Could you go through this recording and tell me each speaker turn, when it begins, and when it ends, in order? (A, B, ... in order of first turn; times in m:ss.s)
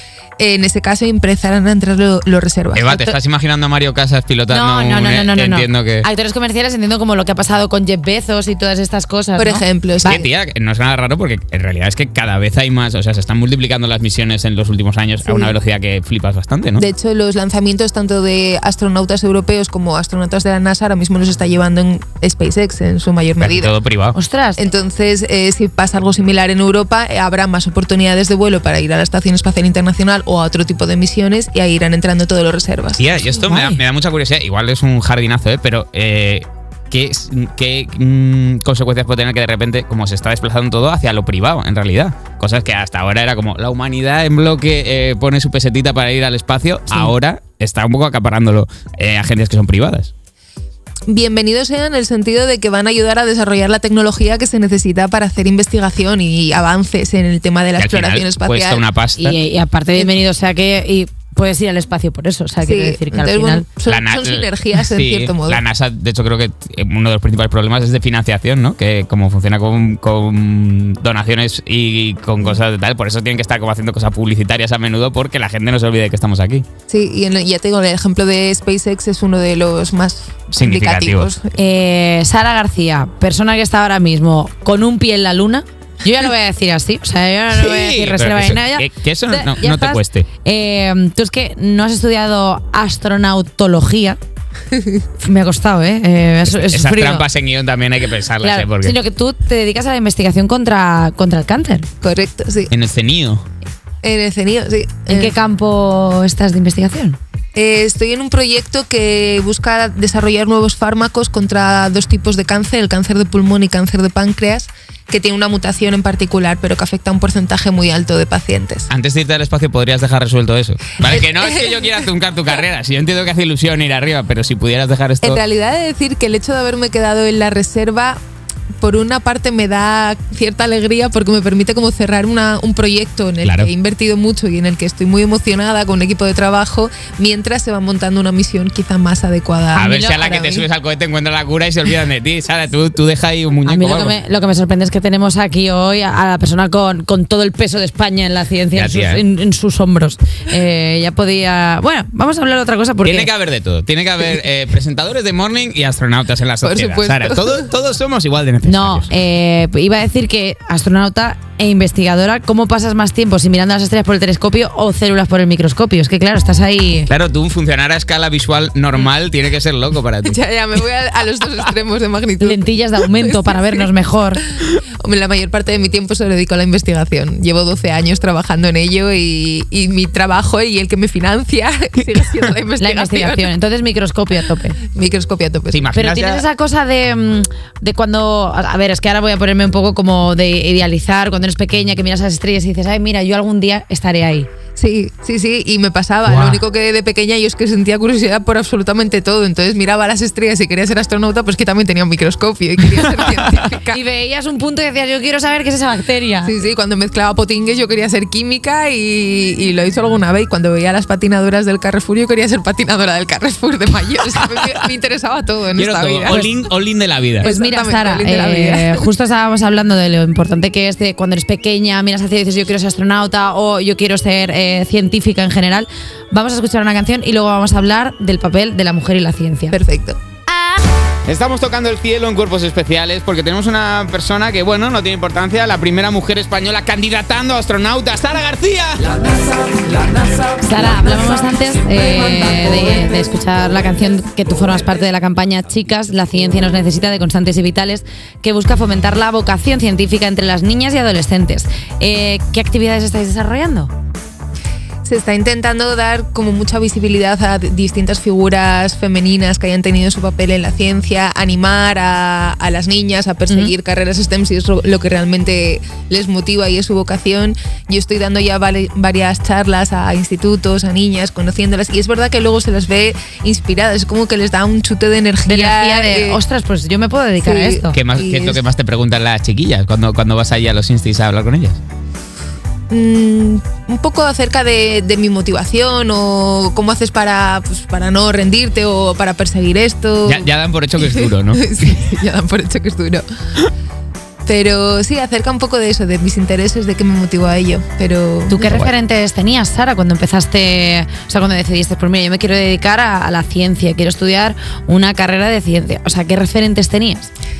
0:00.4-0:03.0 A
0:02.7-0:06.1 B
0:02.9-0:03.1 C
0:04.5-0:10.2 C
0:09.4-0:10.3 A
0:10.0-0:16.9 B
0:15.2-0:15.5 A
0:16.8-0:23.7 A
0:23.4-0:24.2 B
0:24.1-0:24.7 C
0:24.6-0:33.1 A
0:33.0-0:50.1 B
0:33.2-0:33.8 C
0:51.1-0:58.8 A
0:57.8-0:59.4 B
0:59.2-1:03.6 C
1:02.6-1:05.6 A
1:03.8-1:16.6 B
1:16.9-1:21.6 A
1:20.6-1:21.3 B
1:21.5-1:34.2 C
1:27.5-1:30.3 B
1:34.7-1:35.0 A
1:35.2-1:37.3 C
1:36.5-1:39.0 B
1:38.4-1:41.8 C
1:42.0-1:42.7 A
1:42.7-1:43.4 B
1:44.0-1:45.3 A
1:45.1-1:47.2 C
1:47.5-1:58.9 A
1:58.9-2:05.4 B
2:01.0-2:02.0 A
2:05.2-2:08.2 A
2:08.8-2:20.6 A
2:13.4-2:13.7 B
2:19.7-2:24.1 B
2:23.6-2:33.3 C
2:28.7-2:29.2 B
2:33.0-2:39.1 B
2:36.6-2:37.7 A
2:38.6-2:47.1 C
2:47.1-2:50.4 B
2:50.2-2:53.9 A
2:52.4-2:54.4 C
2:54.6-3:03.5 A
3:02.8-3:04.8 C
3:04.9-3:05.9 A
3:05.7-3:06.4 B
3:05.9-3:14.5 C
3:14.8-3:24.0 A
3:23.9-3:26.5 C
3:26.4-3:36.4 A
3:35.7-3:37.5 B
3:36.2-3:36.5 C
3:37.4-3:39.1 A
3:37.4-3:49.8 C
3:49.7-3:50.2 A
3:50.5-3:50.8 C
3:51.2-3:59.2 B
4:00.6-4:13.9 C
4:15.0-4:36.4 A
4:35.4-4:37.9 C
4:37.4-4:38.6 A
4:37.9-4:41.8 B
4:42.9-4:53.2 A
4:50.2-4:51.6 B
4:54.5-4:58.8 A
4:58.5-5:07.3 C